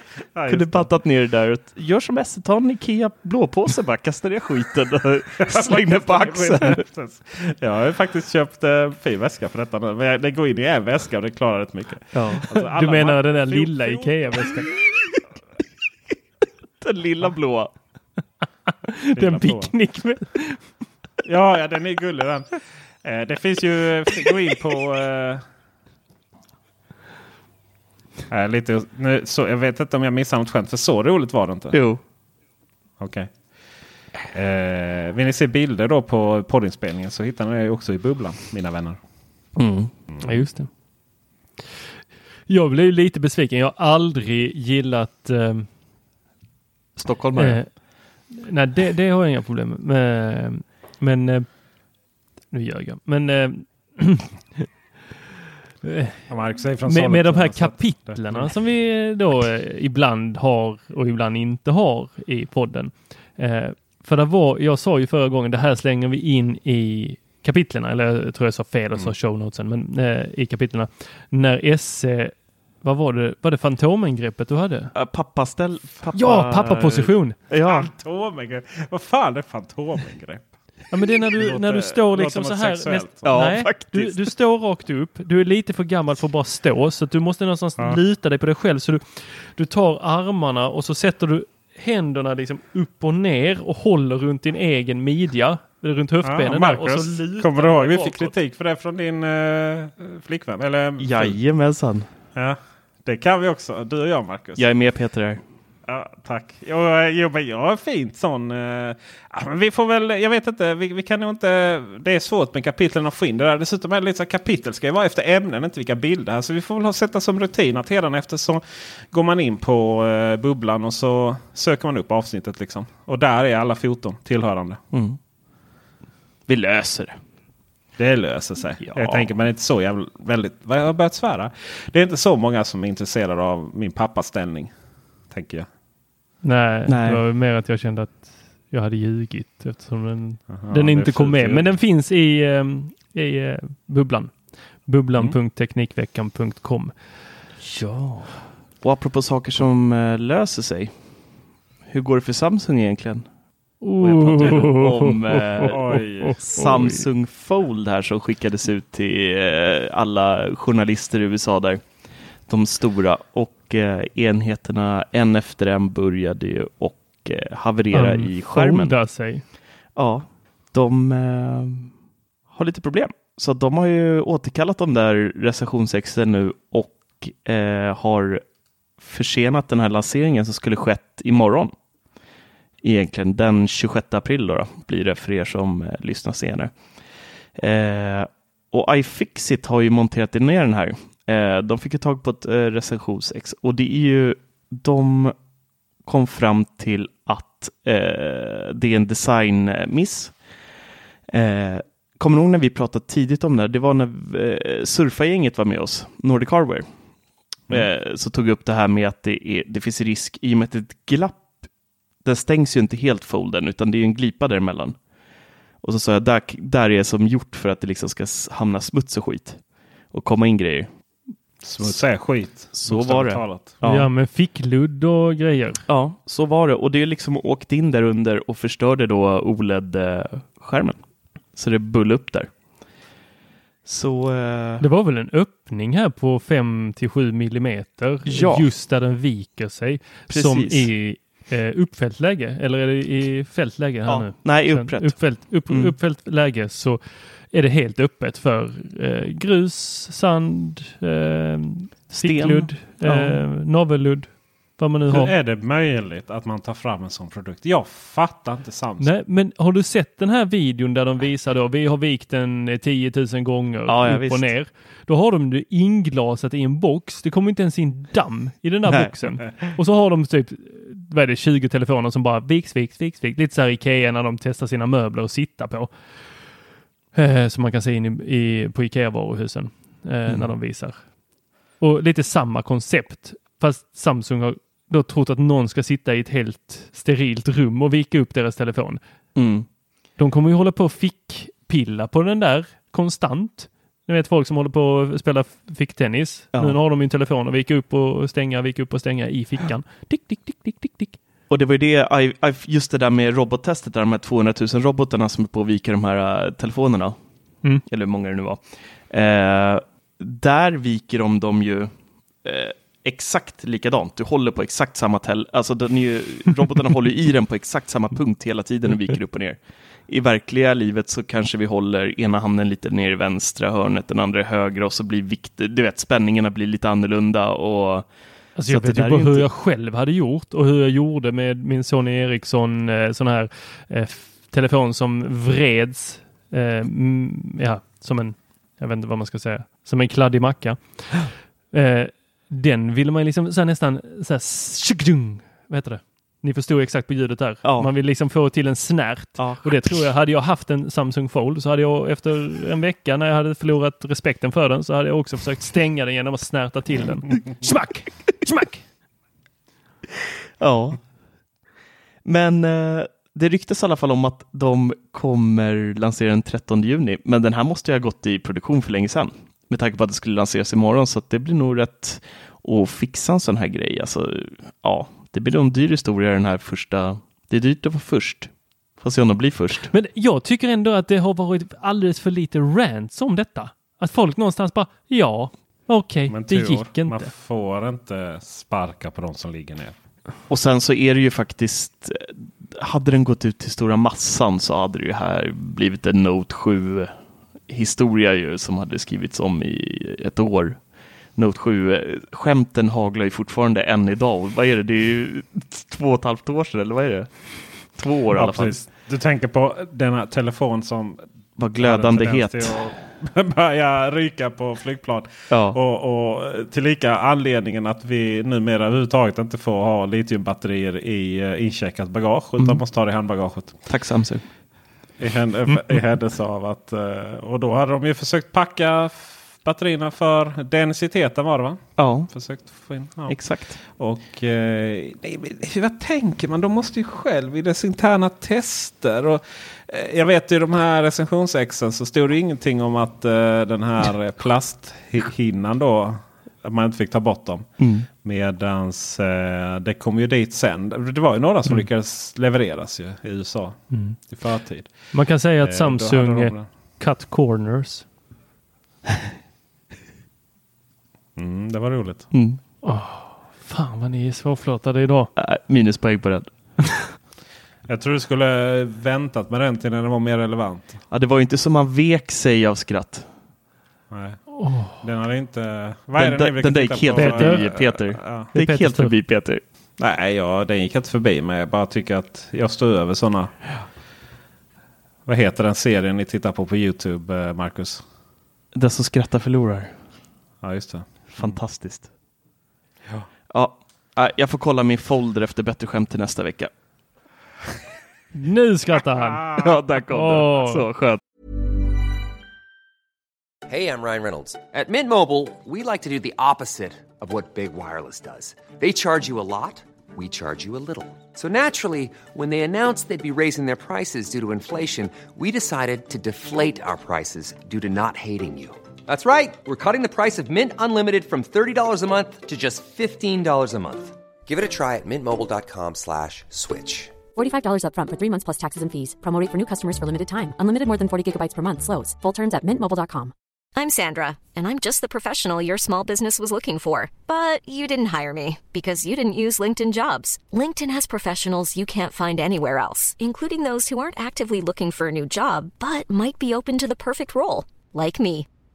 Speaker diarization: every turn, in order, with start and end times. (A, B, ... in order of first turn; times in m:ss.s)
0:00.3-0:00.9 A
0:00.5-0:06.8 B
0:05.4-0:14.8 A
0:12.1-0:12.5 B
0:12.5-0:14.7 C
0:16.8-0:17.7 B
0:18.9-0:20.7 C
0:19.2-0:19.7 A
0:21.2-0:25.4 A
0:28.3-0:31.8 A
0:31.7-0:32.0 B
0:33.0-0:33.3 A
0:34.3-0:39.0 A
0:39.6-0:39.9 B
0:40.2-0:40.7 C
0:42.5-0:45.7 C
0:47.0-0:47.8 B
0:47.4-0:51.6 C
0:52.5-0:54.7 C
0:55.8-0:56.2 C
0:56.3-0:58.5 A
0:56.8-1:14.9 C
1:14.9-1:17.9 B
1:16.1-1:17.5 C
1:17.6-1:20.4 A
1:20.9-1:38.3 C
1:21.4-1:23.3 A
1:23.2-1:24.2 B
1:36.2-1:41.4 A
1:41.0-1:42.1 B
1:42.4-1:44.7 A
1:44.6-1:45.4 B
1:45.9-2:04.8 A
2:04.9-2:05.2 B
2:06.5-2:07.2 B
2:08.0-2:14.7 A
2:08.8-2:09.2 B
2:15.3-2:15.7 A
2:16.4-2:27.3 C
2:16.9-2:17.2 B
2:20.5-2:21.7 A
2:27.6-2:31.1 B
2:31.8-2:33.3 B
2:33.8-2:41.9 B
2:33.8-2:37.0 C
2:35.6-2:36.6 A
2:42.4-2:52.0 B
2:47.9-2:49.4 C
2:52.5-2:58.4 B
2:59.0-3:01.7 B
3:02.8-3:07.0 B
3:07.6-3:15.3 B
3:16.0-3:20.4 B
3:21.3-3:26.9 B
3:27.7-3:31.6 B
3:32.2-3:35.0 B
3:35.8-3:40.9 B
3:41.6-3:43.8 A
3:42.7-3:44.1 B
3:43.8-3:45.8 C
3:45.9-3:52.5 B
3:53.8-3:54.8 B
3:54.8-4:15.3 C
3:58.2-3:58.7 B
4:00.3-4:00.9 B
4:04.0-4:05.9 B
4:12.1-4:13.4 B
4:15.1-4:19.1 A
4:19.0-4:36.4 C
4:23.9-4:24.5 B
4:28.9-4:29.1 B
4:37.1-4:41.1 C
4:41.8-4:49.0 C
4:49.3-4:49.7 B
4:50.2-5:01.2 C
5:01.5-5:07.2 B
5:07.8-5:28.1 B
5:28.6-5:58.8 C
5:28.6-5:29.4 B
5:47.6-5:47.9 B
5:49.4-5:50.0 B
6:00.6-6:01.1 B
6:02.2-6:19.9 B
6:19.9-6:27.3 C
6:26.3-6:30.0 A
6:30.5-6:37.1 B
6:37.7-6:48.8 B
6:48.3-6:51.2 A
6:51.6-6:52.9 B
6:51.8-7:03.8 A
6:55.5-6:55.8 B
7:03.8-7:04.4 B
7:05.2-7:36.6 A
7:12.0-7:12.3 B
7:13.3-7:13.8 B
7:27.8-7:28.1 B
7:33.9-7:34.2 C
7:35.1-7:38.0 C
7:41.4-7:42.3 A
7:42.3-7:42.6 B
7:42.8-7:45.3 C
7:45.4-7:47.1 B
7:47.9-7:51.0 A
7:51.1-7:53.3 B
7:54.1-7:54.4 A
7:54.5-7:55.0 C
7:54.9-7:58.5 A
7:56.2-7:59.6 B
7:57.2-7:57.6 C
7:58.5-7:59.2 C
8:00.0-8:03.6 A
8:05.2-8:08.0 A
8:08.7-8:10.0 B
8:10.6-8:11.6 A
8:11.3-8:12.1 B
8:13.5-8:16.7 B
8:18.3-8:19.6 C
8:19.5-8:21.2 B
8:20.1-8:20.8 C
8:23.7-8:47.2 D
8:47.3-8:53.3 E
8:53.7-9:08.5 F